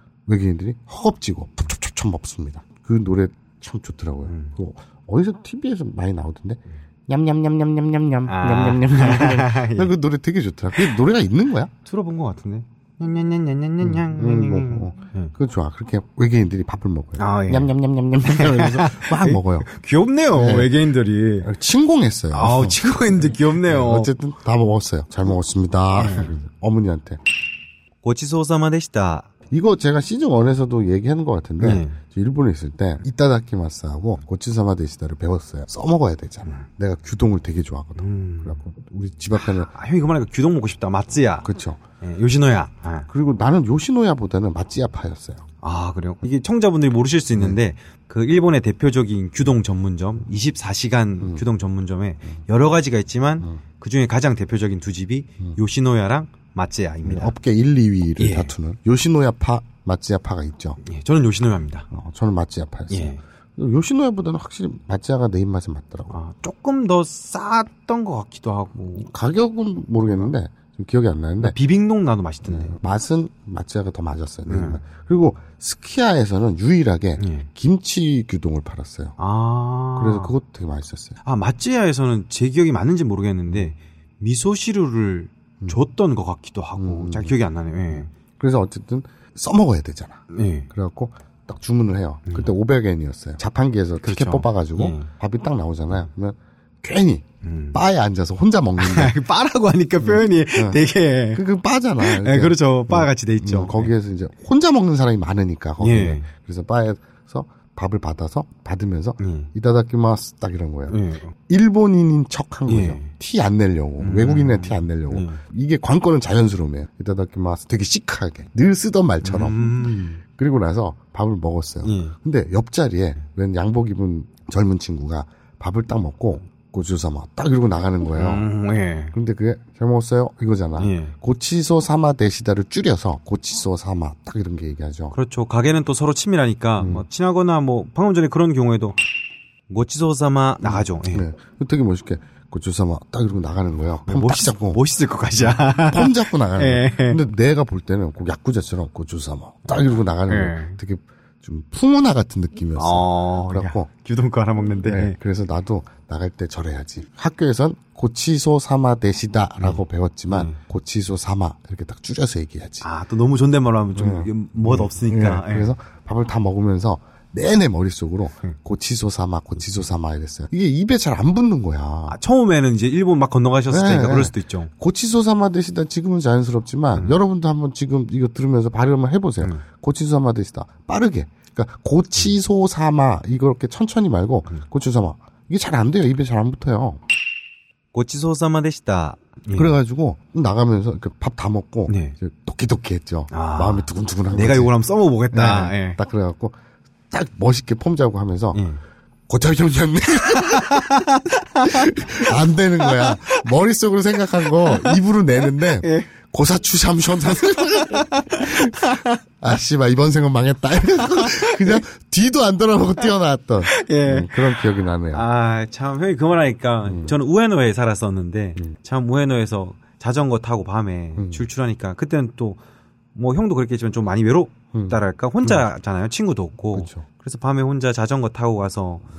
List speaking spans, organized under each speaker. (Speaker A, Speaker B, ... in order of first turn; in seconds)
Speaker A: 0.3-11.7, 13.8-19.7, 20.3-20.7, 21.4-27.2, 29.5-39.7, 41.4-41.8, 43.1-45.4, 57.0-60.8, 61.9-66.1, 69.0-71.5, 72.5-79.2, 80.0-81.2, 86.8-87.3, 88.4-99.1, 100.0-100.8, 101.3-119.7, 120.2-128.5, 129.1-135.1, 136.8-137.0, 140.6-144.8, 145.4-153.9, 154.8-162.8, 163.9-172.2, 173.7-187.0, 189.5-194.7, 195.3-196.6, 197.1-198.6, 199.3-200.9, 201.6-208.8, 209.4-215.2, 216.9-217.1, 221.2-221.4, 224.7-225.6, 226.7-227.0
Speaker B: 4.3-4.5, 8.3-9.9, 11.8-15.3, 17.2-17.7, 18.3-21.5, 22.3-24.1, 25.9-26.3, 28.0-29.3, 31.6-32.0, 38.0-38.6, 39.3-41.5, 42.0-43.1, 45.6-57.3, 58.2-58.5, 60.8-61.9, 62.9-63.2, 66.1-69.1, 71.4-72.7, 74.5-74.8, 77.2-77.5, 79.2-80.3, 81.2-88.1, 90.3-90.7, 94.0-95.1, 97.4-97.8, 98.8-101.4, 102.0-103.9, 105.8-106.3, 109.2-109.5, 110.9-111.3, 112.7-113.1, 114.0-115.4, 119.2-120.2, 121.8-122.1, 128.1-129.1, 130.8-131.1, 135.1-139.0, 139.7-141.2, 144.1-147.2, 150.3-150.8, 152.8-155.2, 159.6-160.6, 162.8-165.7, 172.1-174.7, 187.9-189.7, 191.9-192.2, 193.3-196.0, 198.5-198.8, 200.3-203.4, 204.4-205.0, 205.8-206.1, 207.5-209.2, 211.1-211.8, 213.7-222.6, 223.1-229.1